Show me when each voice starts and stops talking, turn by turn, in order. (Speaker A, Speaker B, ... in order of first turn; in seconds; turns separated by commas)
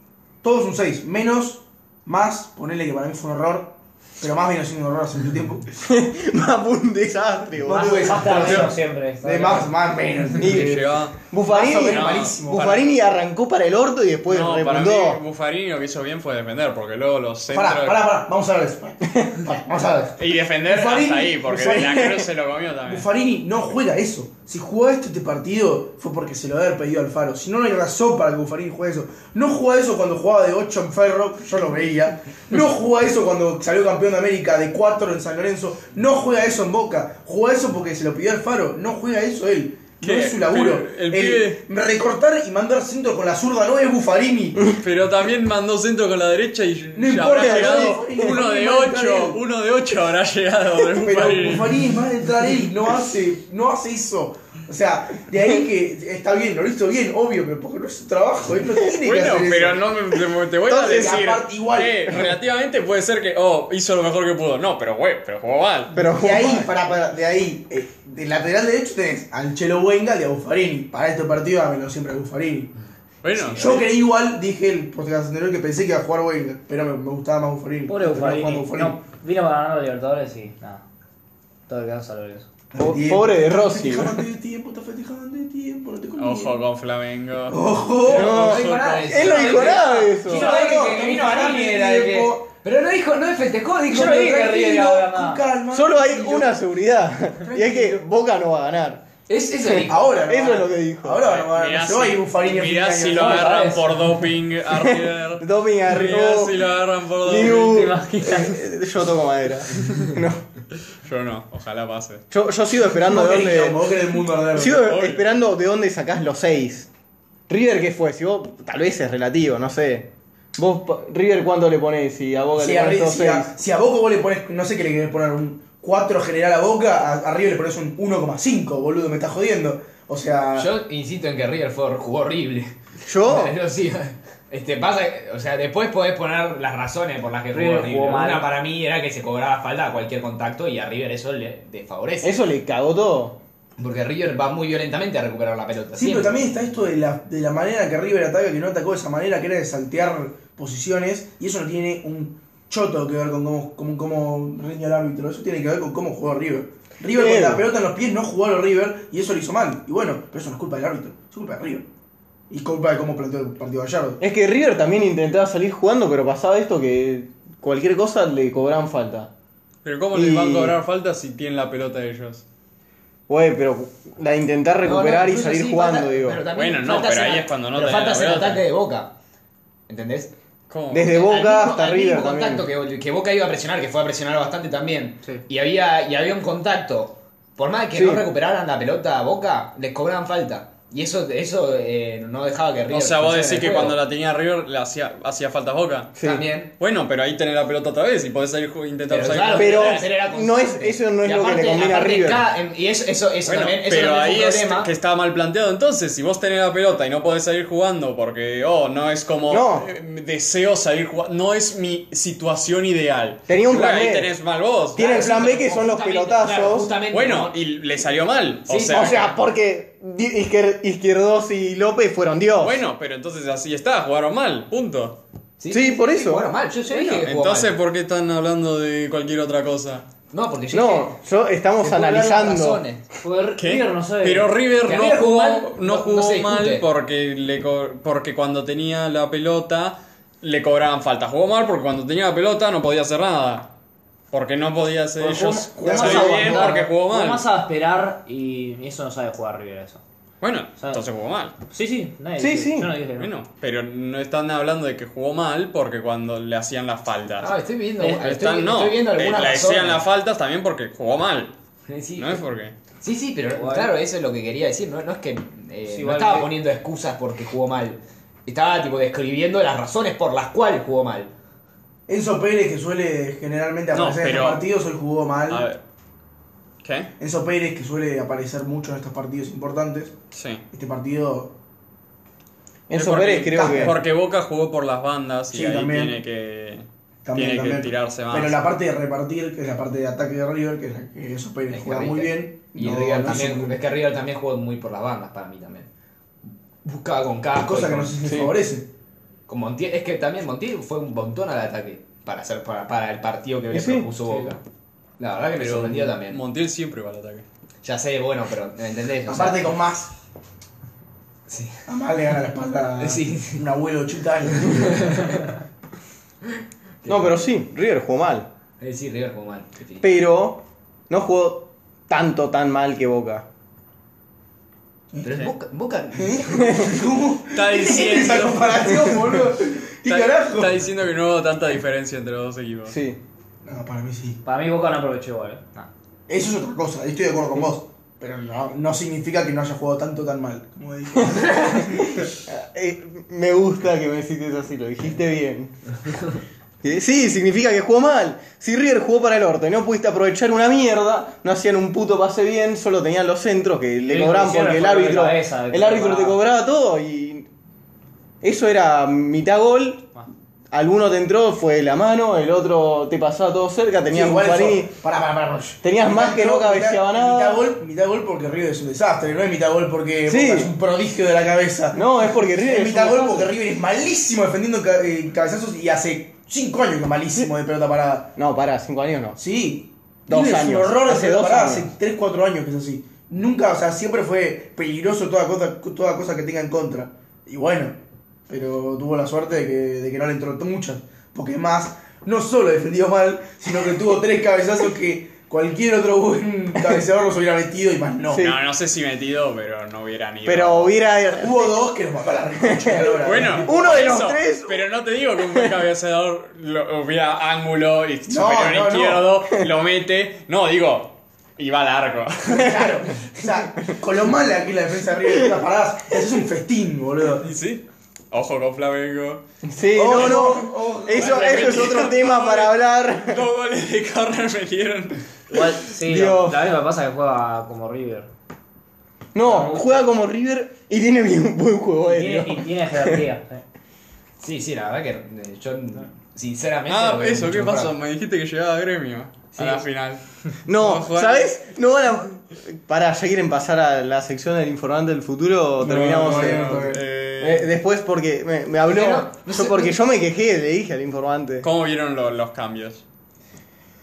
Speaker A: 0.4-5.7, Speaker B: 5.8-8.7, Speaker A: 7.6-12.7, Speaker C: 7.7-9.7, Speaker D: 10.4-12.8, Speaker B: 10.4-15.2, Speaker D: 14.3-18.0, Speaker A: 17.5-22.3, Speaker D: 20.2-23.1, Speaker B: 21.6-22.3, Speaker A: 22.9-44.7, Speaker D: 40.0-41.6, Speaker D: 44.7-51.8, Speaker A: 47.0-49.4, Speaker B: 47.3-48.4, Speaker A: 51.0-59.9, Speaker D: 58.9-65.9, Speaker B: 60.7-61.1, Speaker A: 60.7-62.3, Speaker B: 65.9-66.9, Speaker A: 66.0-72.7, Speaker D: 73.2-73.9, Speaker E: 73.4-73.8, Speaker A: 73.5-79.0, Speaker C: 77.9-80.8, Speaker C: 81.7-82.5, Speaker A: 82.7-86.6, Speaker B: 82.8-84.2, Speaker D: 86.2-89.7, Speaker A: 87.5-88.3, Speaker E: 88.0-94.9, Speaker B: 88.1-90.7, Speaker A: 90.3-92.5, Speaker C: 93.9-95.4, Speaker A: 93.9-96.6, Speaker B: 95.7-99.0, Speaker A: 97.5-98.0, Speaker E: 99.3-100.3, Speaker B: 99.7-101.3, Speaker A: 99.9-103.5, Speaker D: 101.2-107.9, Speaker C: 103.1-104.2, Speaker B: 104.7-106.7, Speaker B: 107.2-110.5, Speaker C: 107.5-108.6, Speaker D: 111.0-112.2, Speaker B: 112.3-113.9, Speaker A: 113.0-114.9, Speaker B: 114.5-116.9, Speaker D: 114.7-115.2, Speaker B: 117.5-123.5, Speaker A: 122.6-130.7, Speaker E: 130.6-142.3, Speaker B: 133.1-133.6, Speaker C: 137.5-138.5, Speaker B: 142.2-143.4, Speaker E: 143.8-146.4, Speaker A: 145.9-161.9, Speaker B: 157.1-157.7, Speaker A: 162.5-164.2, Speaker B: 164.2-169.3, Speaker D: 169.8-172.4, Speaker B: 170.1-170.8, Speaker B: 173.3-176.4, Speaker E: 174.8-179.1, Speaker D: 176.5-178.7, Speaker E: 179.9-180.3, Speaker D: 180.7-181.1, Speaker B: 180.9-182.7, Speaker E: 181.1-194.0, Speaker B: 187.9-188.2, Speaker D: 192.9-196.2, Speaker B: 196.2-196.4, Speaker E: 196.2-196.7, Speaker D: 196.8-200.1, Speaker E: 199.1-204.9, Speaker B: 199.5-202.5, Speaker D: 203.5-215.3, Speaker B: 209.5-209.9, Speaker B: 213.5-214.3, Speaker B: 214.9-216.9, Speaker E: 215.0-217.6, Speaker D: 217.1-219.3, Speaker E: 218.7-219.2, Speaker B: 218.8-222.8, Speaker D: 222.6-225.2, Speaker E: 225.6-227.7, Speaker B: 225.7-226.5, Speaker D: 226.9-230.1, Speaker E: 230.3-231.2, Speaker B: 230.7-232.8, Speaker E: 231.8-233.0, Speaker C: 233.2-234.6, Speaker D: 233.6-243.7, Speaker E: 234.8-236.8, Speaker D: 244.3-247.5, Speaker C: 245.2-250.0, Speaker B: 245.8-246.7, Speaker D: 250.4-251.6, Speaker C: 251.7-253.3, Speaker B: 252.4-252.9, Speaker D: 253.2-261.5, Speaker E: 257.4-260.0, Speaker E: 261.9-262.4, Speaker D: 262.2-262.8, Speaker E: 263.0-271.3, Speaker C: 263.5-263.9, Speaker C: 265.9-266.5, Speaker A: 272.1-275.7, Speaker D: 273.9-274.6, Speaker D: 275.5-275.8, Speaker D: 276.8-277.1, Speaker A: 277.2-280.1, Speaker D: 280.3-280.6, Speaker A: 280.7-281.5, Speaker B: 282.9-284.0, Speaker D: 282.9-288.6, Speaker A: 283.5-284.0, Speaker A: 285.5-286.2, Speaker A: 287.2-293.8, Speaker E: 291.7-295.9, Speaker E: 296.9-298.2, Speaker A: 297.6-298.9, Speaker B: 298.2-298.5, Speaker E: 299.5-304.6, Speaker B: 303.7-304.1, Speaker E: 305.2-306.4, Speaker D: 305.6-307.4, Speaker E: 307.8-309.7, Speaker A: 309.3-310.1, Speaker E: 311.5-311.9, Speaker A: 311.9-315.4, Speaker E: 313.0-313.6, Speaker E: 314.6-315.5, Speaker E: 317.0-317.4, Speaker B: 317.1-318.5, Speaker E: 318.8-320.1, Speaker B: 320.0-323.5, Speaker A: 325.1-325.4, Speaker E: 325.2-327.0, Speaker A: 326.1-330.8, Speaker D: 327.5-329.3, Speaker D: 330.1-333.0, Speaker B: 332.9-333.2, Speaker A: 333.6-334.4, Speaker C: 334.4-335.9, Speaker A: 336.3-342.3, Speaker B: 342.2-345.8, Speaker B: 346.8-357.5, Speaker C: 354.1-356.4, Speaker B: 358.4-360.1, Speaker B: 360.7-364.9, Speaker A: 364.1-378.3, Speaker B: 365.8-367.7, Speaker B: 370.3-370.7, Speaker B: 371.9-373.5, Speaker B: 378.4-379.4, Speaker A: 379.4-388.0, Speaker B: 380.3-381.9, Speaker A: 388.5-398.5, Speaker D: 398.3-401.0, Speaker B: 400.4-401.8, Speaker A: 401.4-404.1, Speaker B: 402.7-404.9, Speaker D: 403.2-413.0, Speaker A: 408.3-409.3, Speaker A: 412.5-417.4, Speaker D: 417.4-419.4, Speaker B: 419.6-423.4, Speaker A: 419.9-422.0, Speaker D: 420.0-425.2, Speaker C: 425.5-428.3, Speaker B: 426.0-426.7, Speaker B: 429.3-433.2, Speaker C: 429.4-430.0, Speaker C: 432.0-433.6, Speaker E: 434.4-437.9, Speaker D: 436.9-441.6, Speaker E: 439.6-439.8, Speaker B: 440.7-451.7, Speaker A: 445.8-447.0, Speaker D: 445.8-447.7, Speaker E: 448.9-450.0, Speaker D: 451.6-453.0